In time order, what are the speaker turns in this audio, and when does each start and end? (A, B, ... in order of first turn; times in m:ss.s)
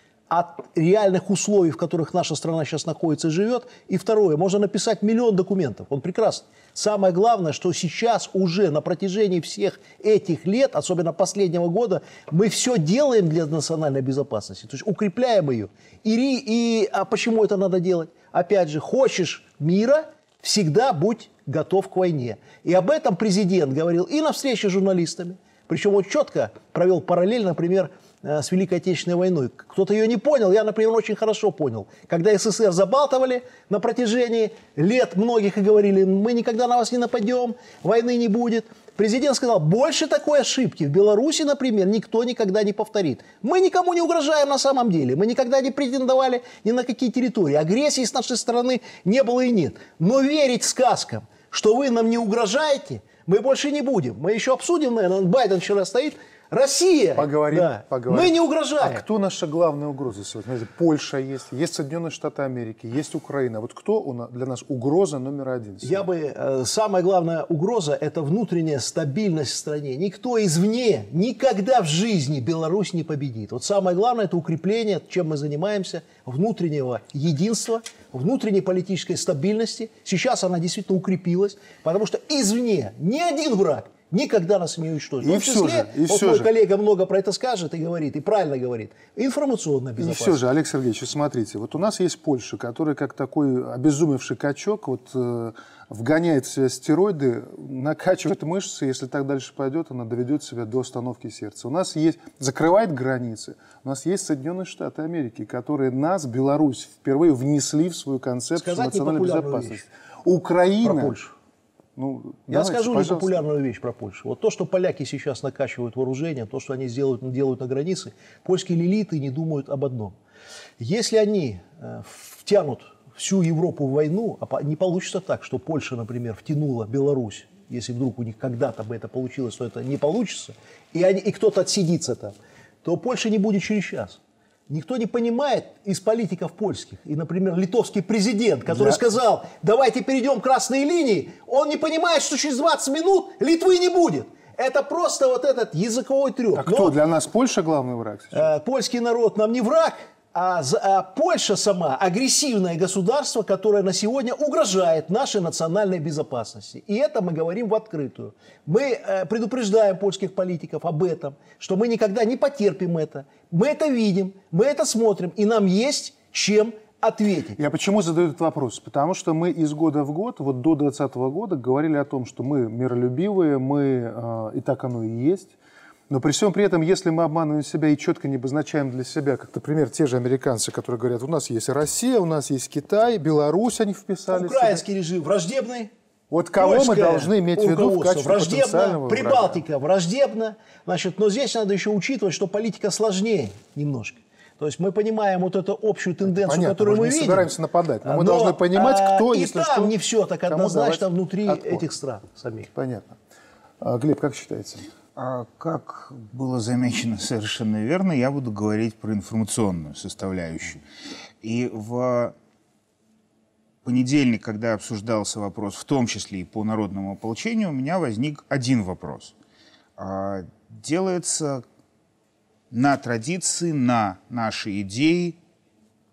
0:00.3-0:59.0 A
0:57.2-1:06.1 B
1:05.8-1:30.4 A
1:25.2-1:26.5 B
1:30.0-1:51.2 B
1:48.6-1:49.8 A
1:50.8-1:51.3 A
1:52.0-1:53.4 B
1:52.5-2:00.2 A
2:00.8-2:27.0 A
2:18.7-2:19.0 B
2:26.6-2:28.5 B
2:28.3-2:47.6 A
2:47.6-2:55.6 B
2:56.1-3:04.9 B
3:04.3-3:05.9 A
3:06.3-3:09.6 B
3:06.6-3:17.5 A
3:16.2-3:19.9 B
3:18.0-3:22.7 A
3:20.5-3:21.9 B
3:22.7-3:23.2 B
3:23.8-3:24.9 B
3:25.2-3:30.8 C
3:31.4-3:32.3 C
3:33.8-3:39.3 C
3:40.0-3:41.6 C
3:42.7-3:45.4 C